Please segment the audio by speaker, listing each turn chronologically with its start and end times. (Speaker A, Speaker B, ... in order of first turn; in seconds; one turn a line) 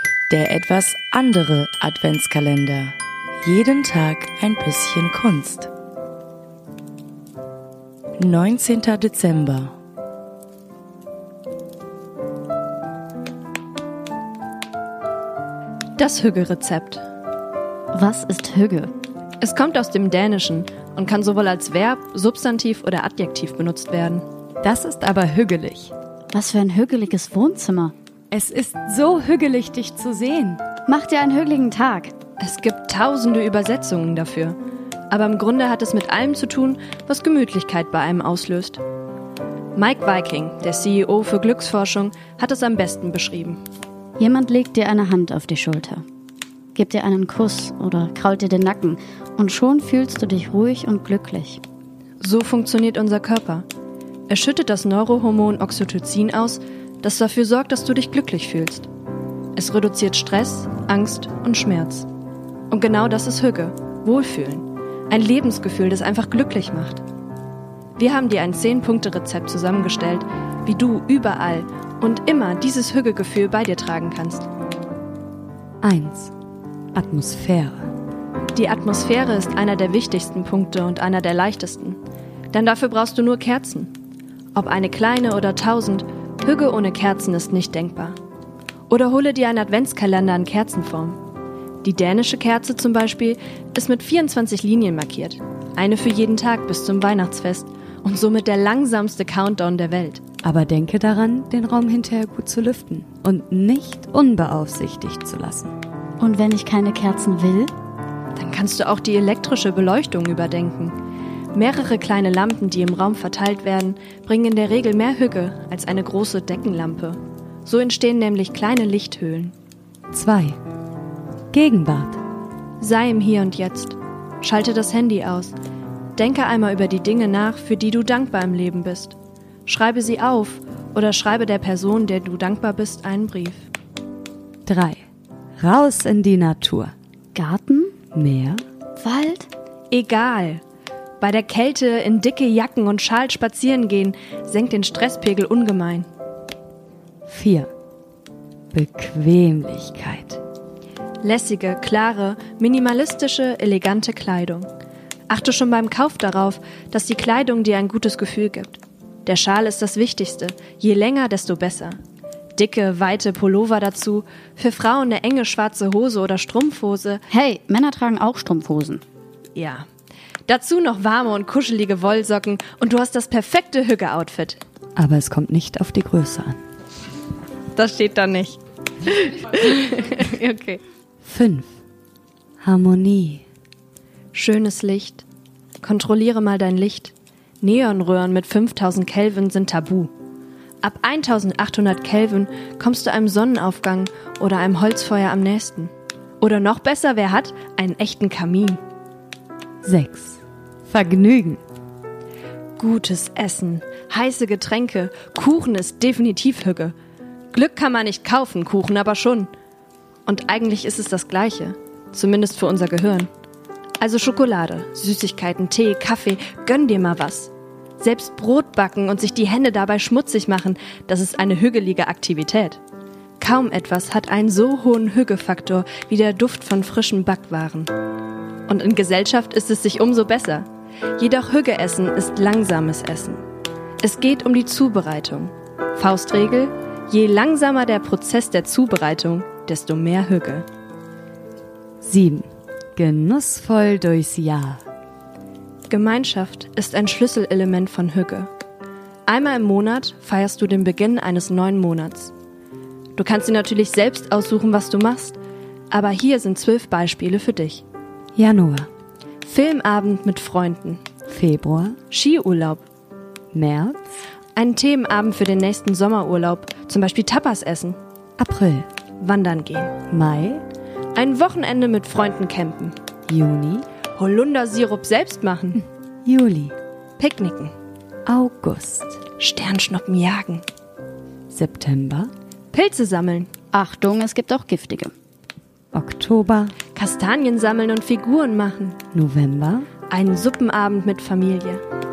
Speaker A: 0.3-5.7
Speaker A: 8.2-9.7
Speaker B: 16.0-17.0
Speaker C: 17.9-18.9
Speaker B: 19.4-24.2
Speaker D: 24.6-25.9
Speaker C: 26.3-27.9
Speaker D: 28.3-30.6
Speaker C: 30.9-32.1
Speaker B: 32.4-34.6
Speaker B: 35.1-38.8
Speaker B: 39.8-43.6
Speaker C: 44.2-46.0
Speaker C: 46.7-51.6
Speaker B: 52.2-53.6
Speaker B: 54.3-58.9
Speaker B: 59.5-62.1
Speaker B: 62.7-67.0
Speaker B: 68.0-74.5
Speaker D: 75.8-76.3
Speaker D: 76.9-77.9
Speaker B: 78.5-82.0
Speaker B: 82.5-83.9
Speaker B: 84.5-88.2
Speaker B: 88.9-91.2
Speaker B: 91.8-100.2
Speaker D: 100.4-105.7
Speaker C: 106.2-107.7
Speaker B: 108.3-111.0
Speaker B: 111.5-119.5
Speaker D: 120.1-120.6
Speaker D: 121.5-122.2
Speaker B: 122.8-125.5
Speaker B: 126.2-133.7
Speaker D: 134.7-135.0
Speaker D: 135.6-136.9
Speaker C: 137.3-137.9
Speaker D: 138.1-138.6
Speaker C: 139.0-139.5
Speaker B: 139.9-140.6
Speaker B: 141.2-146.1
Speaker D: 147.3-147.7
Speaker D: 148.7-150.4
Speaker B: 151.2-154.7
Speaker B: 155.3-162.0
Speaker B: 162.6-167.2
Speaker C: 167.3-169.0
Speaker B: 169.5-169.8
Speaker B: 170.5-174.6
Speaker D: 174.9-176.6
Speaker B: 177.7-180.8
Speaker D: 181.2-181.7
Speaker D: 182.6-183.4
Speaker B: 184.3-185.2
Speaker B: 185.8-190.1
Speaker B: 190.8-198.8
Speaker D: 199.8-201.6
Speaker B: 202.8-206.9
Speaker B: 207.5-209.5
Speaker B: 210.2-213.3
Speaker B: 214.0-222.8
Speaker B: 223.4-227.9
Speaker B: 228.7-230.7
Speaker B: 231.2-233.4
Speaker B: 234.0-240.7
Speaker D: 242.0-244.8
Speaker B: 245.9-248.5
Speaker B: 249.3-252.3
Speaker B: 253.2-255.4
Speaker B: 255.9-257.8
Speaker D: 258.4-258.9
Speaker B: 259.4-261.0
Speaker D: 261.3-262.0
Speaker B: 262.1-262.8
Speaker D: 263.5-264.0
Speaker B: 264.6-268.0
Speaker D: 268.4-268.9
Speaker B: 269.2-270.0
Speaker D: 270.1-270.6
Speaker B: 271.1-273.0
Speaker D: 273.3-273.9
Speaker B: 274.1-275.8
Speaker D: 276.2-276.7
Speaker B: 277.2-277.7
Speaker D: 278.2-279.2
Speaker B: 279.4-280.6
Speaker D: 281.5-282.3
Speaker B: 282.7-283.5
Speaker C: 283.7-285.1
Speaker D: 285.9-286.7
Speaker B: 286.9-289.0
Speaker D: 289.1-289.9
Speaker B: 290.1-291.8